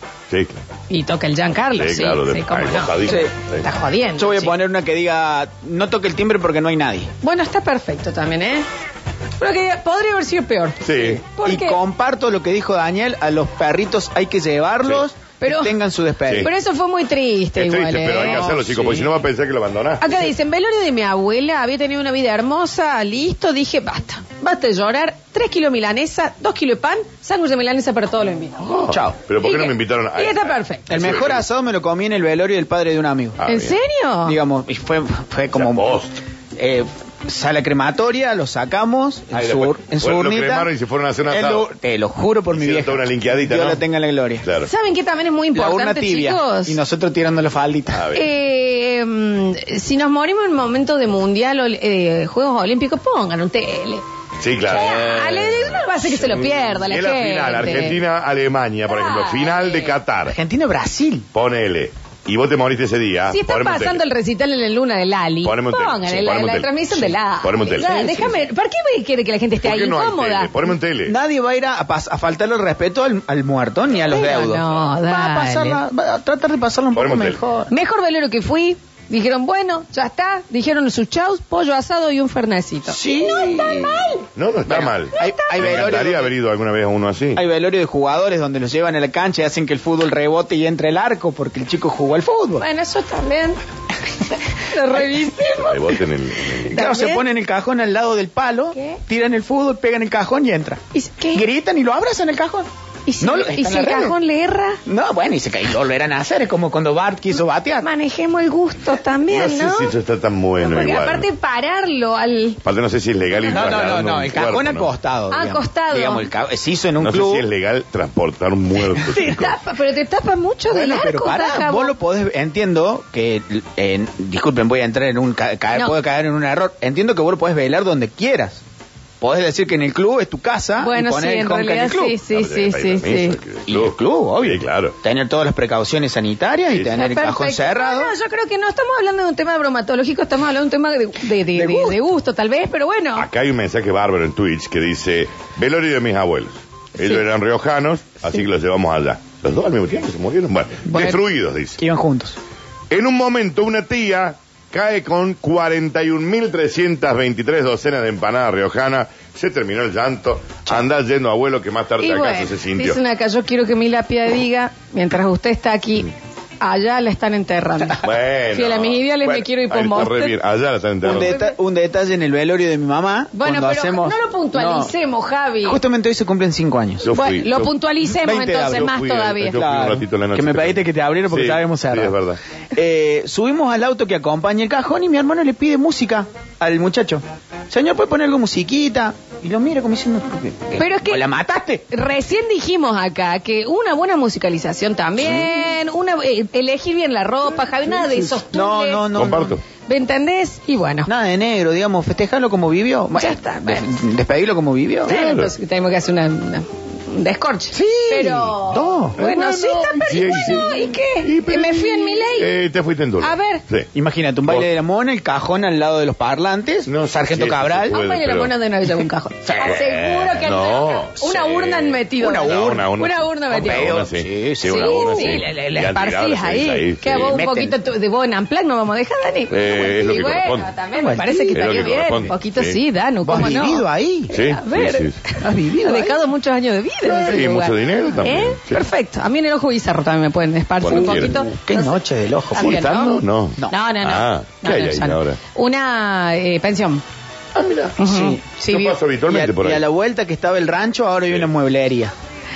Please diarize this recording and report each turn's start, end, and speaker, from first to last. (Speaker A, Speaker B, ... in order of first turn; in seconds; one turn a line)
Speaker A: 0.3-0.6
Speaker B: 0.9-4.5
Speaker A: 1.8-3.7
Speaker C: 3.1-3.3
Speaker C: 4.2-7.1
Speaker B: 7.2-8.7
Speaker B: 9.4-11.8
Speaker A: 10.8-11.2
Speaker C: 11.3-16.5
Speaker B: 15.4-15.8
Speaker B: 16.3-18.9
Speaker A: 17.6-20.1
Speaker C: 18.4-19.0
Speaker B: 20.0-28.7
Speaker A: 28.6-31.4
Speaker C: 28.9-29.2
Speaker B: 29.4-30.9
Speaker C: 30.9-33.4
Speaker A: 33.4-33.8
Speaker B: 33.5-34.4
Speaker C: 34.2-36.0
Speaker A: 35.5-36.2
Speaker C: 36.6-40.7
Speaker A: 39.3-41.7
Speaker C: 41.3-44.5
Speaker A: 42.6-43.8
Speaker A: 44.4-44.7
Speaker B: 44.6-46.8
Speaker C: 45.5-48.1
Speaker A: 47.9-48.3
Speaker B: 48.1-54.0
Speaker A: 54.4-60.4
Speaker B: 54.7-58.0
Speaker B: 58.9-60.0
Speaker C: 60.3-61.3
Speaker A: 61.3-64.0
Speaker B: 63.3-70.5
Speaker A: 65.4-68.4
Speaker A: 69.6-71.2
Speaker C: 71.1-77.7
Speaker B: 74.1-75.8
Speaker A: 77.0-77.4
Speaker B: 77.7-84.3
Speaker C: 82.9-84.1
Speaker A: 84.4-87.4
Speaker C: 84.7-86.3
Speaker B: 85.2-85.5
Speaker C: 87.3-92.7
Speaker B: 92.6-93.6
Speaker B: 94.5-97.2
Speaker A: 95.5-96.8
Speaker C: 96.7-102.7
Speaker B: 100.9-101.5
Speaker B: 103.1-104.8
Speaker C: 103.2-104.2
Speaker C: 104.9-107.9
Speaker B: 107.8-109.9
Speaker A: 109.3-111.3
Speaker B: 110.6-112.6
Speaker A: 112.6-114.9
Speaker C: 113.4-117.5
Speaker B: 115.3-116.3
Speaker A: 117.0-119.6
Speaker B: 118.9-122.0
Speaker C: 120.7-128.6
Speaker C: 129.2-132.2
Speaker B: 130.8-133.4
Speaker A: 132.3-134.9
Speaker C: 133.7-138.1
Speaker B: 136.9-143.3
Speaker C: 141.5-142.0
Speaker A: 143.2-151.8
Speaker C: 150.9-151.2
Speaker C: 151.8-152.4
Speaker A: 152.9-163.0
Speaker B: 162.0-170.4
Speaker A: 168.0-171.3
Speaker C: 171.0-174.9
Speaker B: 171.0-171.5
Speaker B: 173.3-175.8
Speaker C: 175.6-177.1
Speaker A: 177.1-177.7
Speaker B: 177.1-179.6
Speaker C: 178.1-179.0
Speaker A: 178.8-182.4
Speaker C: 179.5-182.2
Speaker C: 182.7-191.9
Speaker B: 190.8-191.2
Speaker B: 191.9-199.1
Speaker C: 198.3-199.6
Speaker A: 199.2-199.6
Speaker B: 199.9-201.1
Speaker C: 201.1-205.2
Speaker B: 203.1-203.9
Speaker B: 205.1-212.5
Speaker A: 205.1-205.5
Speaker C: 207.8-209.2
Speaker A: 208.1-208.5
Speaker A: 209.2-213.9
Speaker B: 213.2-213.6
Speaker C: 213.9-217.9
Speaker A: 216.9-218.6
Speaker B: 217.9-223.9
Speaker C: 219.5-219.8
Speaker A: 219.6-227.4
Speaker C: 222.2-222.9
Speaker C: 223.5-225.4
Speaker B: 224.6-235.1
Speaker C: 227.1-227.8
Speaker A: 229.5-230.7
Speaker C: 230.9-231.8
Speaker A: 231.5-232.8
Speaker C: 233.2-234.3
Speaker A: 234.3-235.2
Speaker C: 235.4-236.3
Speaker B: 235.8-241.9
Speaker A: 237.1-238.8
Speaker A: 240.8-241.4
Speaker C: 241.0-243.8
Speaker B: 242.5-247.0
Speaker A: 242.6-245.4
Speaker A: 247.5-249.8
Speaker B: 248.0-249.0
Speaker C: 248.1-248.4
Speaker C: 249.3-252.1